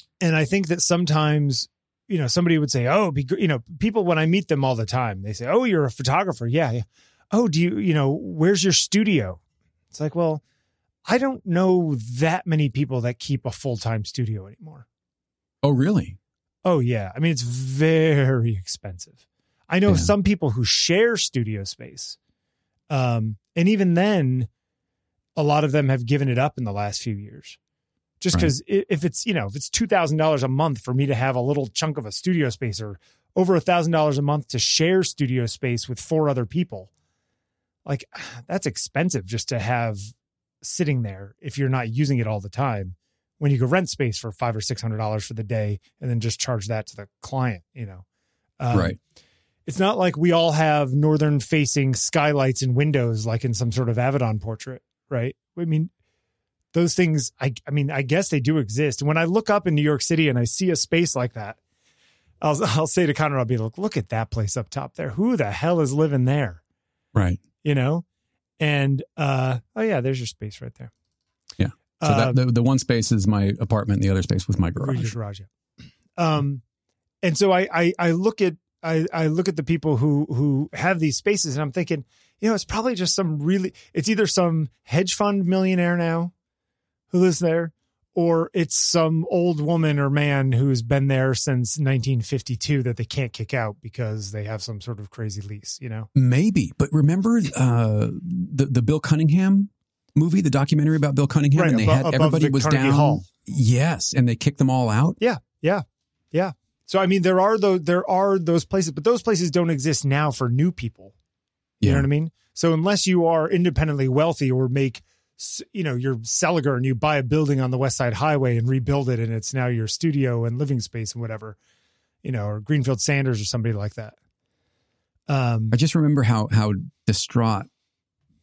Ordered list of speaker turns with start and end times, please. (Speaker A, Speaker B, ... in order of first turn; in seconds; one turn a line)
Speaker A: 0.2-9.4
Speaker A: 9.9-10.4
Speaker A: 11.1-14.9
Speaker B: 15.6-16.2
Speaker A: 16.6-22.2
Speaker A: 22.9-24.5
Speaker A: 25.4-27.6
Speaker A: 28.2-36.9
Speaker A: 37.9-48.0
Speaker A: 48.6-49.0
Speaker A: 49.7-55.9
Speaker A: 56.7-61.6
Speaker A: 62.4-66.6
Speaker B: 67.2-67.4
Speaker A: 67.6-68.0
Speaker A: 68.6-70.9
Speaker B: 71.6-75.1
Speaker A: 72.0-72.4
Speaker A: 74.8-75.5
Speaker A: 76.2-76.6
Speaker A: 77.2-86.3
Speaker A: 87.1-96.1
Speaker B: 96.2-105.2
Speaker A: 101.5-103.3
Speaker A: 105.2-111.1
Speaker B: 111.8-112.1
Speaker A: 111.8-121.6
Speaker A: 122.2-124.2
Speaker A: 125.3-125.8
Speaker B: 125.7-127.7